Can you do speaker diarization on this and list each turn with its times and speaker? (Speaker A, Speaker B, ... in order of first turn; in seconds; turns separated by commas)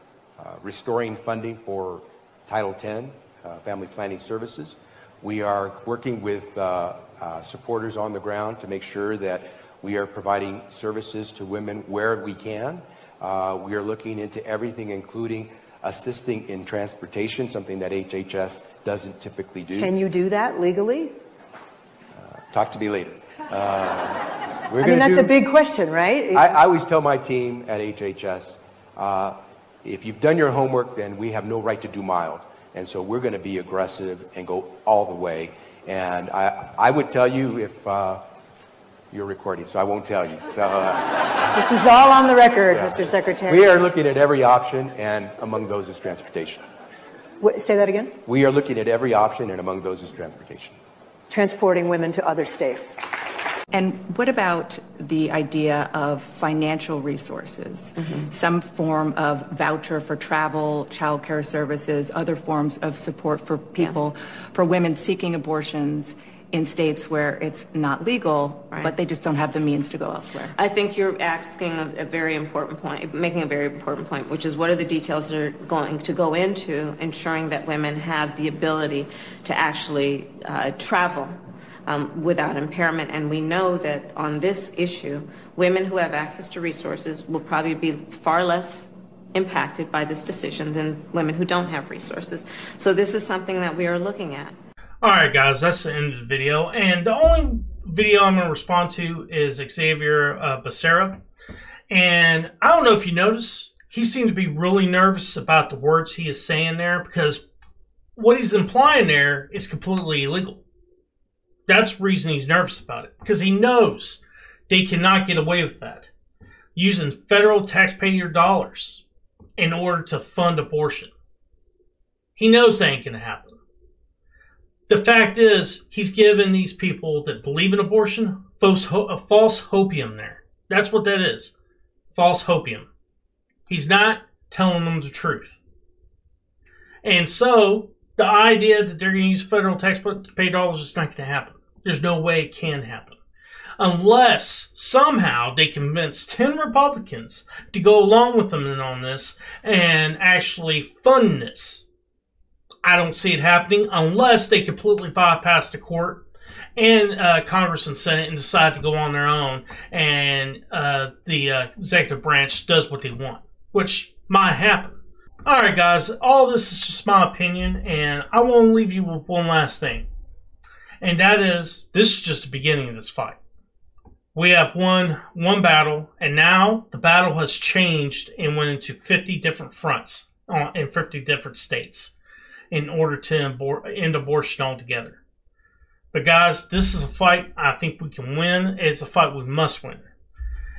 Speaker A: 0.4-19.9, Speaker B: 19.7-21.1, Speaker A: 22.2-25.3, Speaker B: 24.8-26.5, Speaker A: 26.3-38.2, Speaker A: 39.1-41.4, Speaker B: 41.5-43.9, Speaker A: 42.7-46.6, Speaker B: 47.4-48.1, Speaker A: 48.2-50.8, Speaker B: 51.3-53.0, Speaker C: 53.7-70.6, Speaker D: 58.0-58.3, Speaker D: 70.6-94.6, Speaker E: 95.0-101.2, Speaker E: 101.9-107.4, Speaker E: 108.2-110.6, Speaker E: 111.7-116.1, Speaker E: 116.8-119.0, Speaker E: 119.6-121.1, Speaker E: 122.4-123.6, Speaker E: 124.9-131.5, Speaker E: 132.1-132.9, Speaker E: 133.7-135.6, Speaker E: 137.0-143.2, Speaker E: 143.8-151.8, Speaker E: 152.8-156.2, Speaker E: 156.8-170.1, Speaker E: 171.0-173.4, Speaker E: 174.3-182.1, Speaker E: 182.7-185.2, Speaker E: 186.1-190.1